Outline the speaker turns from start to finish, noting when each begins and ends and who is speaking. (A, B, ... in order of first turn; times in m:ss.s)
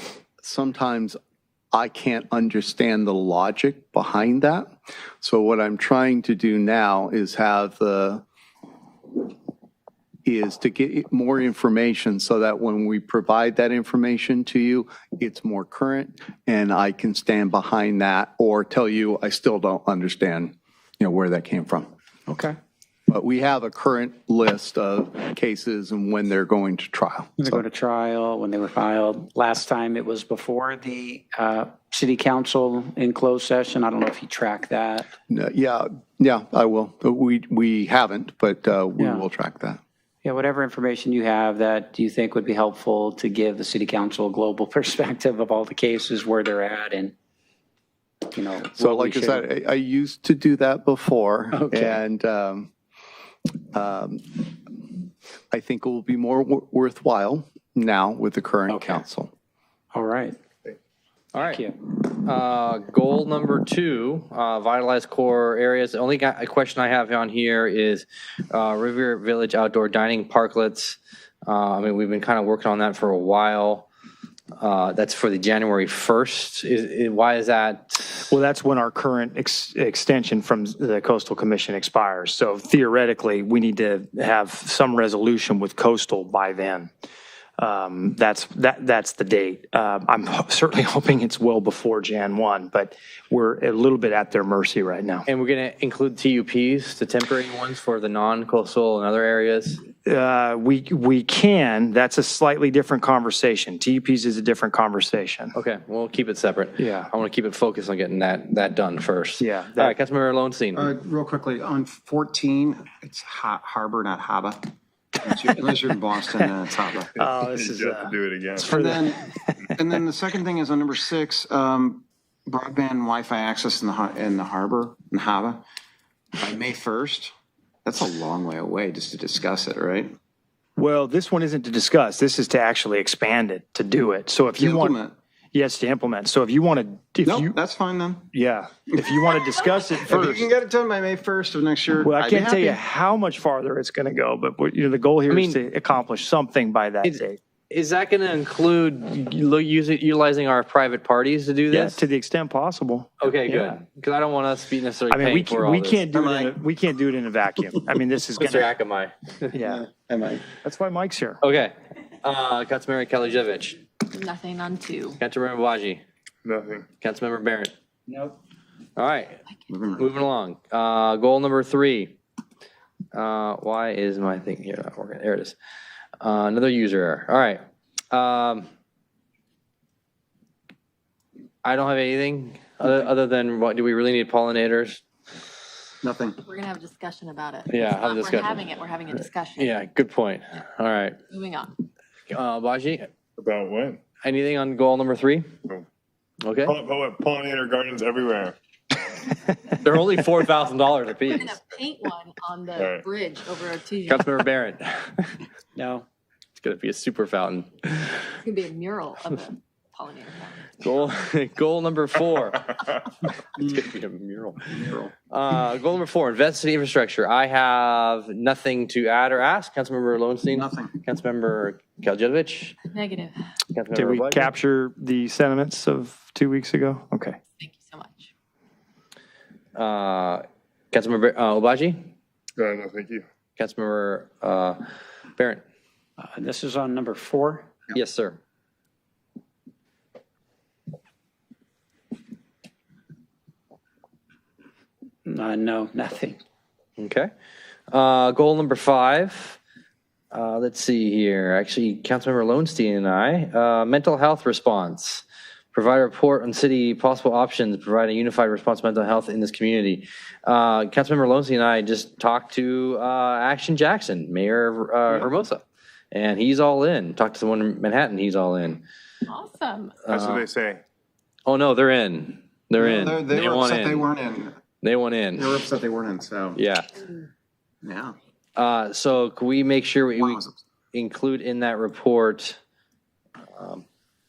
0:00.4-0:01.2 A
0:01.7-0:04.7 A
0:05.2-0:08.2 A
0:10.2-0:21.9 A
0:22.3-0:22.6 B
0:23.1-0:27.6 A
0:27.4-0:35.1 B
0:35.3-0:39.8 A
0:39.0-0:39.3 B
0:40.2-0:47.2 B
0:48.3-0:49.4 B
0:48.8-0:52.7 A
0:51.5-0:52.0 B
0:53.7-0:54.6 A
0:55.5-0:59.3 A
0:58.7-0:59.0 B
0:59.9-1:00.4 B
1:01.3-1:13.9 C
1:01.4-1:01.8 B
1:14.6-1:18.3 C
1:18.3-1:26.9 D
1:27.6-1:35.3 D
1:35.3-1:39.8 C
1:40.0-1:45.6 D
1:45.5-1:50.9 C
1:46.8-1:47.1 D
1:49.4-1:50.0 D
1:50.8-1:57.1 E
1:57.2-1:59.8 D
1:57.3-1:58.7 F
1:58.7-1:59.2 E
1:59.8-2:05.6 E
2:06.4-2:07.3 E
2:07.8-2:10.2 E
2:10.8-2:15.0 D
2:14.6-2:15.2 E
2:15.5-2:17.6 D
2:17.2-2:18.3 E
2:18.3-2:20.5 D
2:18.9-2:22.8 E
2:22.0-2:27.4 D
2:25.3-2:25.6 C
2:27.0-2:32.1 C
2:31.7-2:33.8 D
2:33.2-2:36.0 C
2:35.1-2:38.7 D
2:36.1-2:36.6 E
2:38.4-2:39.5 C
2:39.5-2:39.8 D
2:39.5-2:40.6 E
2:40.6-2:41.4 D
2:41.4-2:43.8 C
2:44.1-2:45.2 G
2:45.1-2:46.0 C
2:46.4-2:46.9 F
2:47.0-2:47.7 C
2:49.0-2:49.4 C
2:49.7-2:50.1 E
2:50.0-2:52.2 C
2:53.1-2:55.6 C
2:56.2-2:58.7 C
3:01.6-3:05.0 C
3:06.0-3:06.4 E
3:06.4-3:09.8 G
3:07.7-3:11.2 C
3:11.3-3:11.8 G
3:12.3-3:13.1 C
3:13.4-3:14.0 F
3:14.2-3:15.5 C
3:16.4-3:16.8 C
3:16.6-3:18.6 F
3:19.8-3:21.6 C
3:21.4-3:24.3 G
3:22.8-3:23.0 F
3:24.1-3:25.4 C
3:25.8-3:26.1 B
3:26.6-3:28.3 C
3:28.4-3:30.9 G
3:30.8-3:32.9 C
3:33.6-3:42.8 C
3:34.7-3:35.1 E
3:40.5-3:40.9 E
3:42.9-3:43.5 G
3:43.7-3:44.5 C
3:43.9-3:47.4 D
3:47.6-3:48.3 G
3:49.8-3:52.1 C
3:52.6-3:53.2 F
3:53.6-3:54.8 C
3:55.4-3:55.6 C
3:56.2-3:57.8 B
3:57.9-3:58.4 C
4:05.2-4:06.4 B
4:07.0-4:07.3 C
4:07.9-4:09.6 C
4:10.3-4:28.8 C
4:29.3-4:30.0 G
4:30.1-4:30.5 C
4:30.1-4:30.8 F
4:31.5-4:34.1 C
4:32.8-4:34.6 E
4:34.8-4:35.6 C
4:35.4-4:36.6 E
4:36.6-4:36.9 C
4:37.8-4:38.2 E
4:38.6-4:40.4 C
4:40.2-4:40.6 E
4:40.9-4:42.6 C
4:43.5-4:43.8 C